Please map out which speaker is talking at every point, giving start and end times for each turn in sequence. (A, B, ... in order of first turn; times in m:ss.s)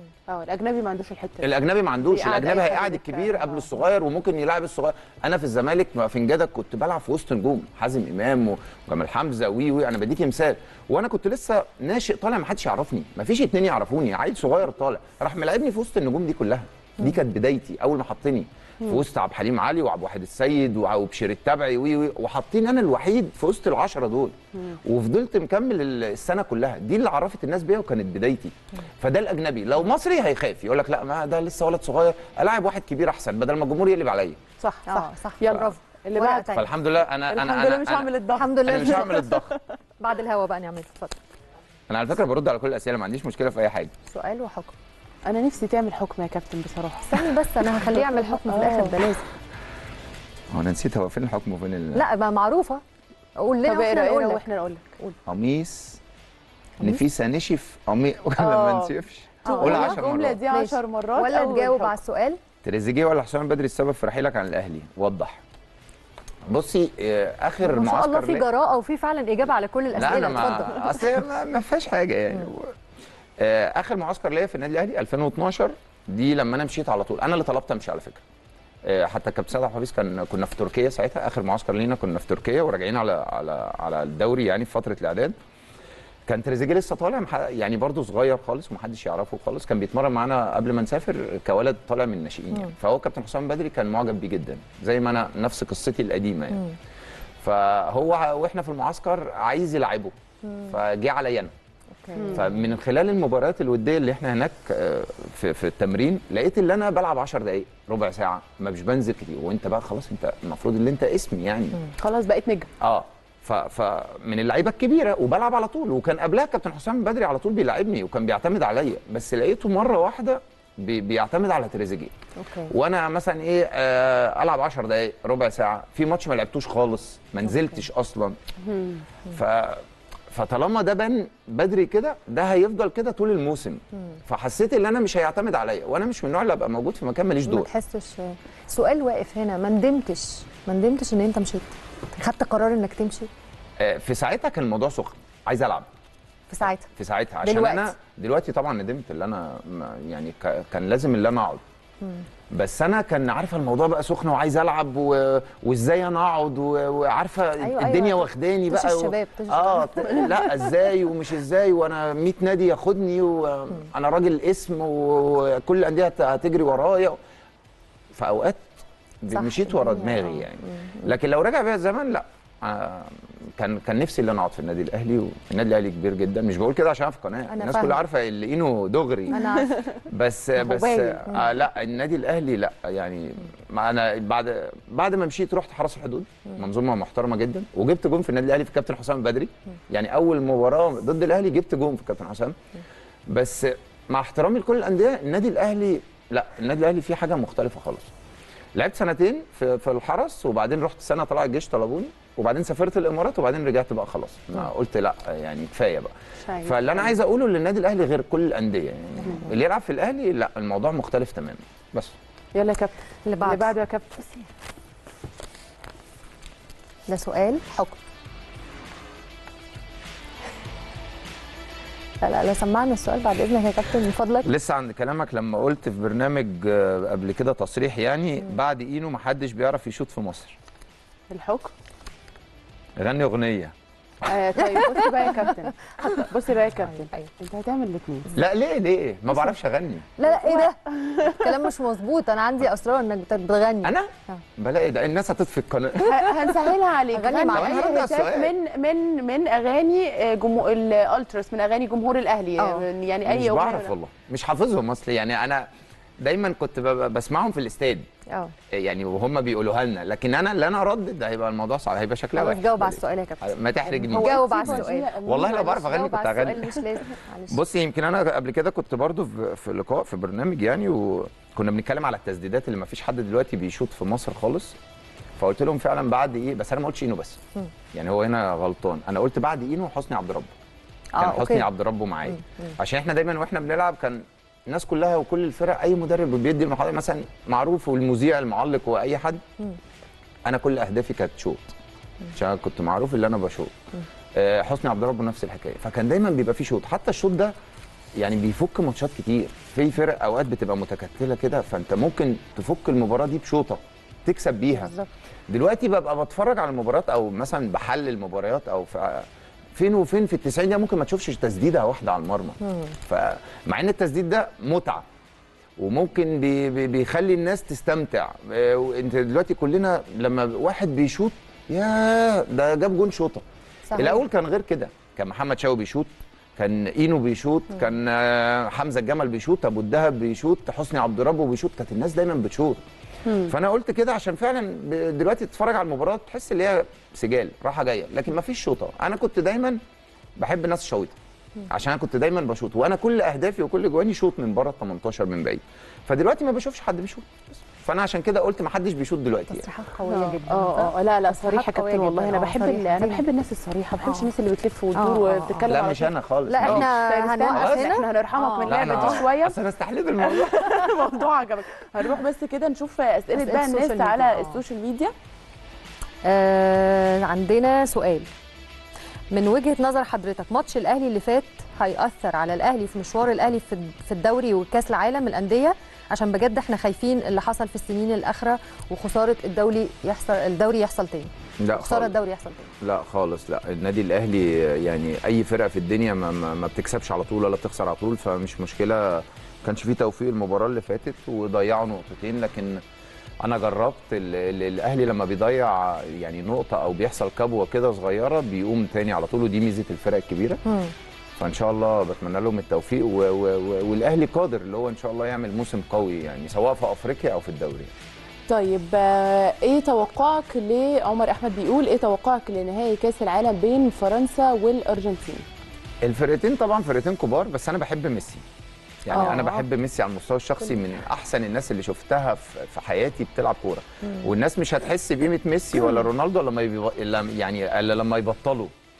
0:00.3-0:03.7 A
0:01.4-0:34.4 B
0:34.7-0:36.5 A
0:34.8-0:36.7 C
0:36.5-0:38.1 B
0:37.3-0:39.6 A
0:38.4-0:39.2 C
0:38.7-0:39.5 B
0:40.0-0:41.2 C
0:41.9-0:43.9 B
0:44.1-0:44.7 C
0:45.2-0:47.4 A
0:47.1-0:49.2 C
0:47.9-0:49.2 A
0:50.5-0:52.0 B
0:51.9-0:52.8 C
0:53.4-0:54.4 C
0:53.6-0:55.0 A
0:55.2-0:56.0 B
0:56.8-1:00.4 B
0:58.4-0:58.9 A
0:59.4-1:02.4 C
0:59.4-1:01.9 A
1:02.6-1:05.4 B
1:06.5-1:08.4 B
1:07.6-1:11.0 C
1:09.9-1:12.8 B
1:13.4-1:18.2 B
1:18.8-1:25.3 B
1:26.3-1:36.6 B
1:37.4-1:40.1 B
1:40.4-1:40.7 C
1:40.7-1:41.5 B
1:42.0-1:42.5 C
1:42.1-1:42.5 A
1:42.3-1:51.8 B
1:52.0-1:52.7 A
1:52.8-2:02.1 B
2:02.4-2:02.7 C
2:02.7-2:08.4 B
2:08.6-2:09.0 A
2:09.3-2:17.7 B
2:17.4-2:23.3 C
2:23.8-2:25.9 B
2:26.5-2:26.9 C
2:26.9-2:31.6 B
2:27.4-2:27.9 C
2:32.5-2:47.2 B
2:37.6-2:40.4 C
2:48.1-2:48.7 B
2:49.2-3:12.6 B
2:49.3-2:51.1 C
2:57.5-2:58.0 C
2:59.3-2:59.8 C
3:00.6-3:01.5 C
3:13.3-3:18.1 B
3:18.8-3:32.1 B
3:26.4-3:27.1 A
3:32.5-3:34.5 A
3:33.2-3:33.7 C
3:37.1-3:38.0 C
3:42.2-3:44.5 C
3:44.4-3:50.6 B
3:51.3-3:51.7 A
3:53.0-3:53.7 B
3:54.2-3:58.4 A
3:54.6-3:55.5 C
3:58.3-4:00.1 B
4:00.2-4:04.4 C
4:00.2-4:01.2 A
4:03.8-4:06.5 B
4:06.0-4:13.9 A
4:07.1-4:08.0 C
4:07.5-4:08.5 B
4:12.6-4:12.8 C
4:13.2-4:15.7 B
4:16.2-4:18.0 B
4:18.7-4:26.9 B
4:22.4-4:23.5 C
4:23.9-4:26.0 A
4:24.1-4:27.6 C
4:27.5-4:34.8 B
4:35.4-4:37.4 B
4:37.9-4:40.5 B
4:41.1-4:41.7 C
4:41.2-4:49.4 B
4:42.3-4:42.7 C
4:50.4-4:51.7 B
4:52.3-4:53.7 B
4:54.3-4:57.5 B
4:58.2-5:04.9 B
5:04.7-5:05.1 A
5:05.5-5:15.0 B
5:12.6-5:12.9 C
5:15.8-5:23.4 B
5:23.9-5:24.2 C
5:24.0-5:32.8 B
5:33.2-5:33.5 A
5:33.4-5:39.8 B
5:40.4-5:41.1 B
5:41.7-5:49.6 B
5:49.5-5:53.2 C
5:50.1-5:59.6 A
5:54.0-5:54.3 C
5:54.9-5:55.7 C
5:55.6-5:56.9 B
5:56.5-5:59.2 C
5:57.5-5:58.0 B
5:58.6-6:00.8 B
6:00.2-6:05.1 A
6:03.3-6:04.6 C
6:06.2-6:08.3 C
6:09.3-6:22.7 C
6:21.6-6:22.1 B
6:22.8-6:32.8 B
6:33.4-6:40.6 B
6:40.6-6:40.9 C
6:41.4-6:47.9 B
6:48.5-6:55.4 A
6:56.0-6:58.4 B
6:59.0-7:08.7 B
6:59.1-6:59.6 A
6:59.1-6:59.5 C